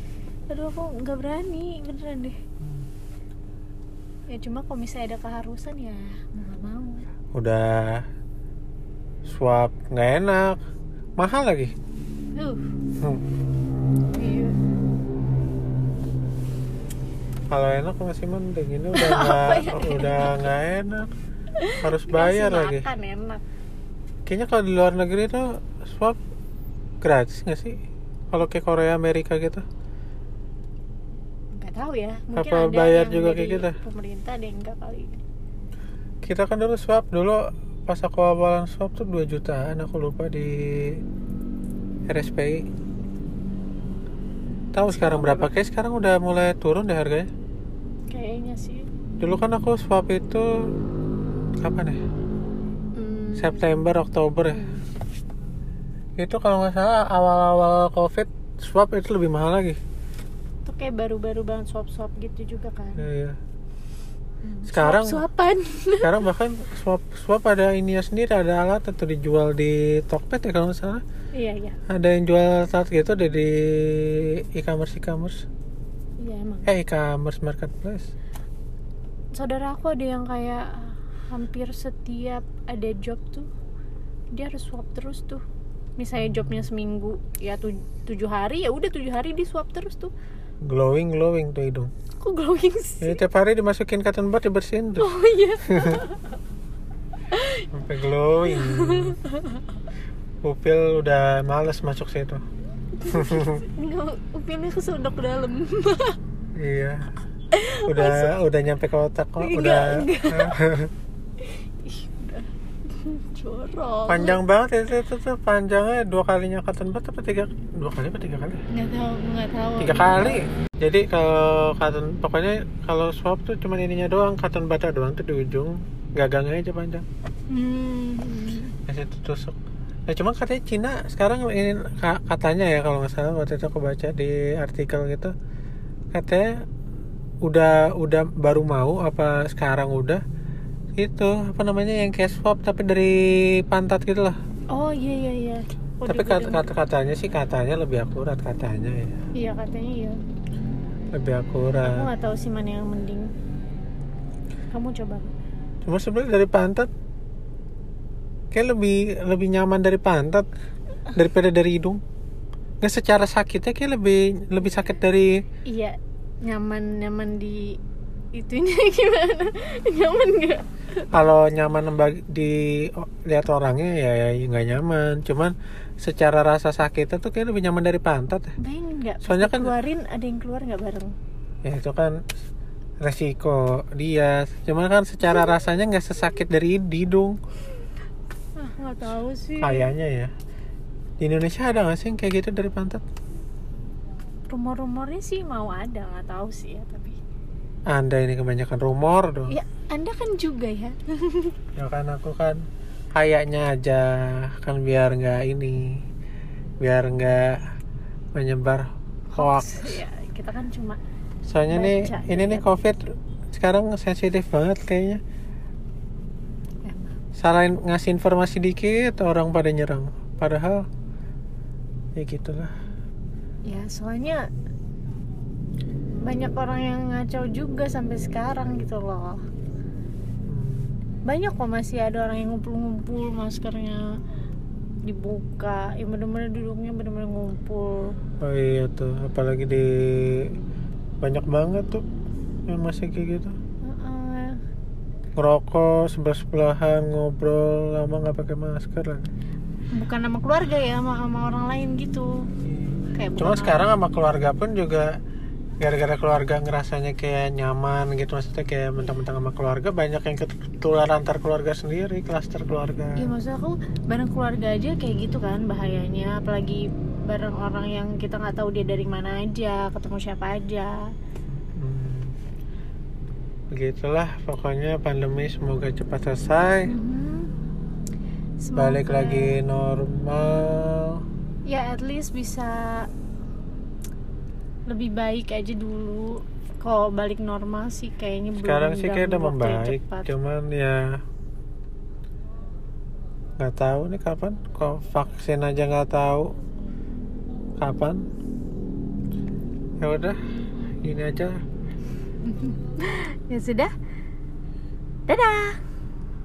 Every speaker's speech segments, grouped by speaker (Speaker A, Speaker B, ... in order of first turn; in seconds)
Speaker A: 0.5-2.4, 4.3-7.0, 12.3-12.6, 14.1-14.6, 18.9-20.5, 21.6-23.4, 31.6-35.2, 44.9-45.5, 48.1-48.9, 52.9-53.9, 54.5-54.8, 60.6-63.0, 64.4-66.3, 71.3-71.8, 76.2-76.7, 79.3-83.5, 84.3-85.4, 86.0-90.1, 92.2-93.2, 95.0-96.3, 97.3-97.7, 98.5-99.8, 103.0-106.2, 107.5-108.3, 109.4-110.5, 111.4-114.4, 118.7-120.4, 127.5-128.7, 144.7-146.7, 149.3-150.2, 151.8-153.3, 154.7-155.3, 165.7-167.8, 168.3-170.6, 178.6-181.1, 188.6-189.9, 194.5-197.2, 199.5-201.5, 209.3-211.0, 211.7-212.6, 216.8-217.2, 223.7-224.4, 226.2-229.4, 231.3-234.1, 235.1-238.1, 243.8-244.6, 249.9-252.3, 253.1-253.8, 263.2-271.0, 276.9-277.5, 278.6-279.5, 281.6-283.1, 284.9-290.3, 302.4-303.9, 305.3-305.8
Speaker B: 7.3-8.0, 9.2-10.6, 11.2-11.7, 17.5-21.1, 21.8-22.9, 24.3-26.2, 27.0-27.8, 28.3-29.6, 32.3-33.8, 36.2-41.0, 42.1-42.6, 44.7-47.3, 49.2-50.5, 51.6-52.0, 53.4-54.6, 56.2-59.8, 63.0-63.4, 64.7-65.2, 66.0-71.0, 71.9-75.4, 76.7-78.1, 86.2-86.7, 90.6-91.9, 93.0-95.1, 95.7-95.9, 97.7-99.2, 100.4-102.4, 103.1-103.6, 106.6-107.1, 107.8-110.9, 114.1-118.6, 119.8-127.0, 128.8-129.6, 130.1-135.3, 136.1-136.5, 137.4-140.2, 141.0-144.4, 146.1-149.2, 151.1-152.1, 155.8-156.9, 158.5-160.5, 161.1-162.0, 162.8-165.4, 171.1-178.5, 179.2-179.7, 181.6-182.2, 183.0-187.4, 189.6-190.3, 191.2-193.0, 197.9-199.5, 201.8-202.6, 203.1-205.9, 206.8-207.6, 208.3-210.0, 211.4-215.2, 217.4-220.8, 222.2-222.7, 230.5-230.9, 238.4-240.5, 241.2-242.0, 242.7-243.5, 245.4-249.3, 252.6-255.1, 255.8-263.3, 271.5-272.3, 273.7-276.9, 278.8-281.2, 288.6-291.2, 293.6-296.5, 297.8-298.2, 300.0-300.4, 301.0-301.6